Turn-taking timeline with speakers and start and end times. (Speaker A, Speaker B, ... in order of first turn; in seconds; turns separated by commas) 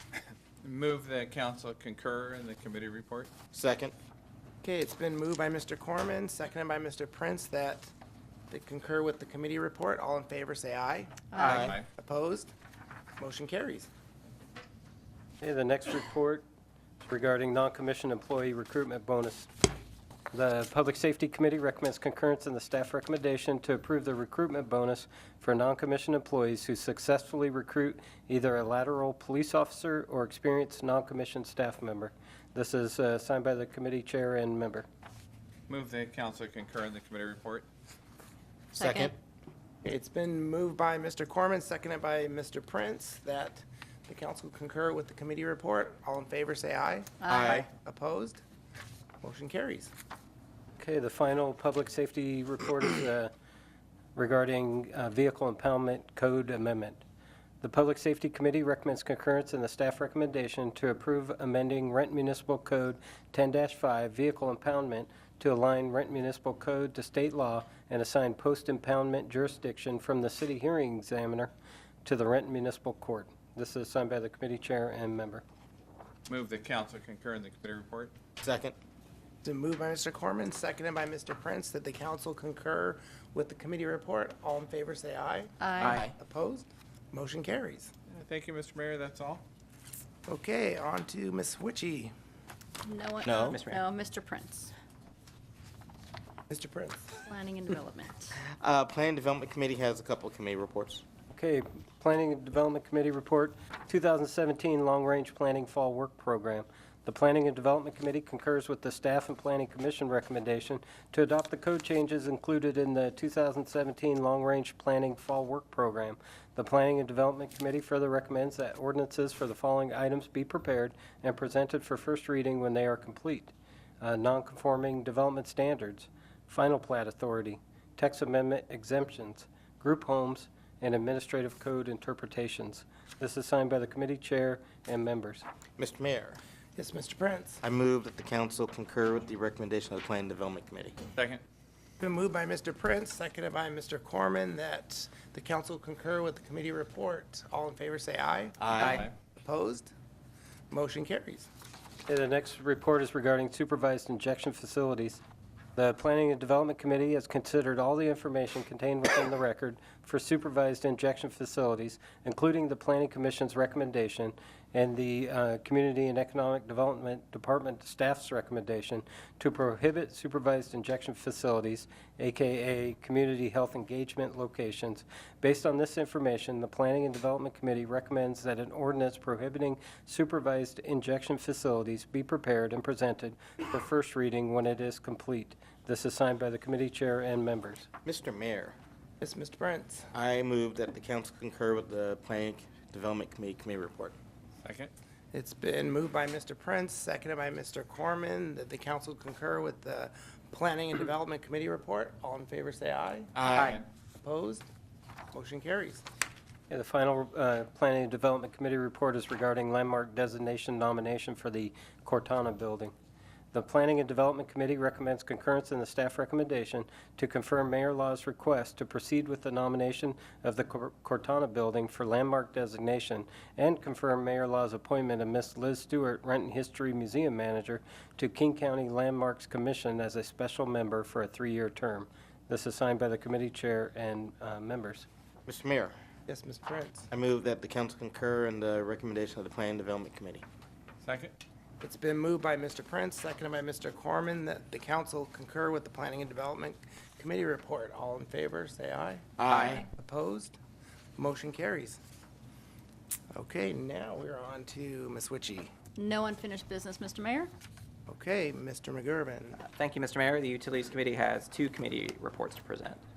Speaker A: 0.6-3.3, Speaker B: 3.5-3.9, Speaker C: 4.6-7.9, Speaker C: 8.5-12.5, Speaker B: 11.4-11.8, Speaker A: 11.4-11.9, Speaker C: 13.2-13.9, Speaker D: 15.4-16.4, Speaker D: 17.0-19.5, Speaker D: 20.3-34.9, Speaker A: 35.7-37.7, Speaker E: 38.8-39.1, Speaker B: 38.8-39.1, Speaker C: 39.8-48.4, Speaker B: 47.2-47.7, Speaker E: 47.3-47.6, Speaker C: 49.2-49.9, Speaker D: 50.8-53.3, Speaker D: 54.1-57.0, Speaker D: 57.6-71.5, Speaker D: 72.0-75.4, Speaker A: 76.3-78.1, Speaker B: 78.4-78.8, Speaker C: 79.4-87.9, Speaker E: 85.6-86.0, Speaker F: 85.8-86.1, Speaker A: 88.1-89.4, Speaker C: 90.3-92.1, Speaker E: 92.9-94.7, Speaker B: 93.2-93.6, Speaker F: 93.5-93.9, Speaker C: 96.5-97.2, Speaker E: 97.3-98.4, Speaker B: 98.4-101.0, Speaker D: 101.3-135.4, Speaker B: 135.8-136.4, Speaker C: 136.8-137.6, Speaker B: 137.6-140.9, Speaker A: 141.2-141.4, Speaker C: 142.0-148.8, Speaker B: 148.6-149.1, Speaker A: 148.9-149.1, Speaker C: 149.4-149.9, Speaker C: 150.7-151.5, Speaker D: 152.1-155.2, Speaker D: 155.8-187.9, Speaker B: 188.0-188.8, Speaker C: 189.2-190.1, Speaker B: 190.1-194.2, Speaker A: 194.6-194.9, Speaker C: 195.3-203.3, Speaker B: 203.3-203.8, Speaker C: 204.2-204.7, Speaker C: 205.3-206.0, Speaker D: 206.7-212.9, Speaker D: 213.5-235.1, Speaker B: 235.4-235.9, Speaker C: 236.3-237.1, Speaker B: 237.1-240.4, Speaker A: 241.0-241.3, Speaker C: 241.8-250.6, Speaker B: 249.4-249.8, Speaker C: 251.2-252.0, Speaker C: 253.3-255.7, Speaker E: 256.0-257.5, Speaker C: 258.1-259.6, Speaker F: 259.6-263.0